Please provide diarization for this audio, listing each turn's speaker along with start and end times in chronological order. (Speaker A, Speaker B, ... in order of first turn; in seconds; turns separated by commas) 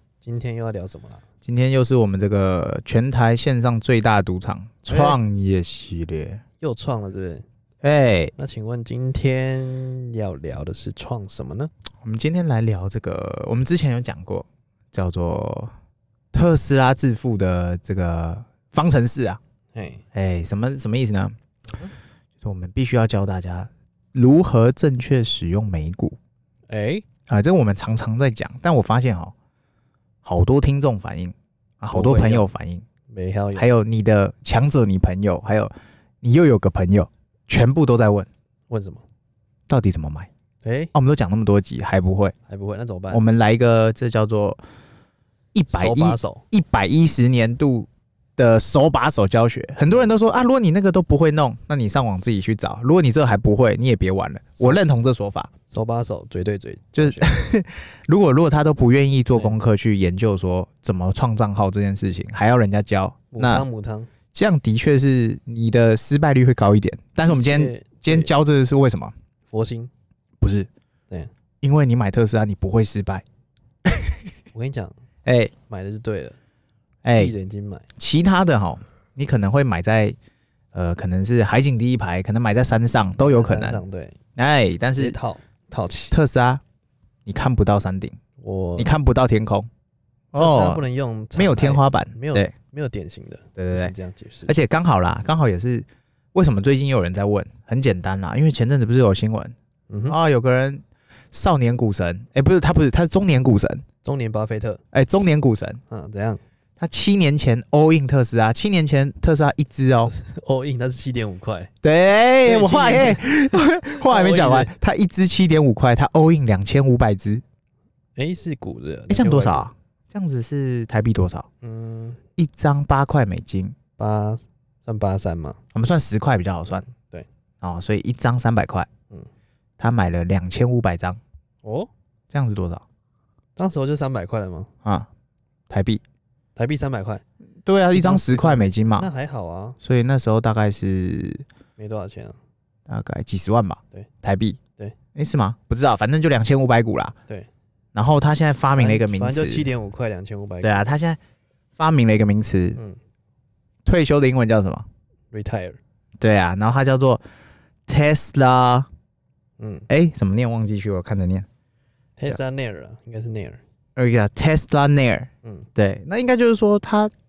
Speaker A: 0.2-1.2, Speaker B: 1.4-6.4, Speaker A: 4.9-5.2, Speaker A: 6.6-7.4, Speaker B: 7.8-8.3, Speaker A: 8.4-11.7, Speaker B: 12.0-15.7, Speaker B: 16.3-19.4, Speaker A: 19.7-20.0, Speaker B: 20.1-21.3, Speaker B: 22.4-26.2, Speaker A: 26.7-27.0, Speaker B: 27.3-29.3, Speaker B: 30.2-32.8, Speaker A: 31.9-32.5, Speaker A: 33.1-33.7, Speaker B: 33.5-35.7, Speaker B: 36.2-38.3, Speaker A: 38.7-39.0, Speaker B: 39.7-40.3, Speaker A: 40.6-40.9, Speaker B: 40.9-42.3, Speaker A: 42.5-43.2, Speaker B: 43.1-44.6, Speaker B: 45.5-55.5, Speaker A: 45.7-46.4, Speaker A: 55.7-57.5, Speaker B: 57.0-63.6, Speaker A: 59.3-59.6, Speaker A: 63.3-64.1, Speaker B: 64.3-69.1, Speaker A: 67.2-68.3, Speaker A: 69.5-69.9, Speaker B: 70.4-70.7, Speaker B: 71.6-73.2, Speaker B: 73.8-74.2, Speaker A: 74.5-74.9, Speaker B: 75.2-75.5, Speaker A: 75.7-76.4, Speaker B: 77.0-77.3, Speaker A: 77.1-77.9, Speaker B: 78.0-80.2, Speaker B: 80.7-83.8, Speaker A: 83.2-84.2, Speaker B: 84.3-85.2, Speaker A: 85.0-86.2, Speaker B: 86.1-86.6, Speaker B: 87.2-88.2, Speaker A: 88.4-88.9, Speaker B: 88.8-89.7, Speaker B: 90.3-90.8, Speaker A: 90.4-94.5, Speaker B: 91.3-92.5, Speaker B: 93.6-93.9, Speaker B: 94.5-99.5, Speaker A: 99.9-100.2, Speaker B: 100.1-103.8, Speaker A: 104.0-104.8, Speaker B: 104.9-105.8, Speaker A: 105.9-106.4, Speaker B: 106.8-110.1, Speaker A: 110.0-111.7, Speaker B: 111.8-117.4, Speaker A: 112.4-114.8, Speaker A: 118.2-119.7, Speaker B: 119.1-121.5, Speaker A: 121.6-122.2, Speaker B: 122.4-123.8, Speaker A: 124.0-125.6, Speaker B: 125.7-126.8, Speaker A: 126.8-127.2, Speaker B: 127.6-128.9, Speaker B: 129.8-131.2, Speaker A: 131.6-131.9, Speaker B: 132.3-132.8, Speaker A: 133.6-134.7, Speaker B: 135.7-136.0, Speaker A: 136.6-137.2, Speaker B: 137.7-139.1, Speaker A: 137.9-139.8, Speaker B: 139.8-141.4, Speaker A: 141.8-142.4, Speaker B: 142.9-144.6, Speaker B: 145.1-147.1, Speaker B: 147.9-149.7, Speaker A: 148.8-150.9, Speaker B: 150.6-151.2, Speaker B: 151.8-152.8, Speaker B: 153.8-154.8, Speaker A: 155.3-155.8, Speaker B: 156.2-157.2, Speaker B: 157.9-158.9, Speaker A: 159.6-159.9, Speaker B: 159.9-161.4, Speaker A: 162.2-163.6, Speaker B: 163.9-167.1, Speaker A: 165.4-165.7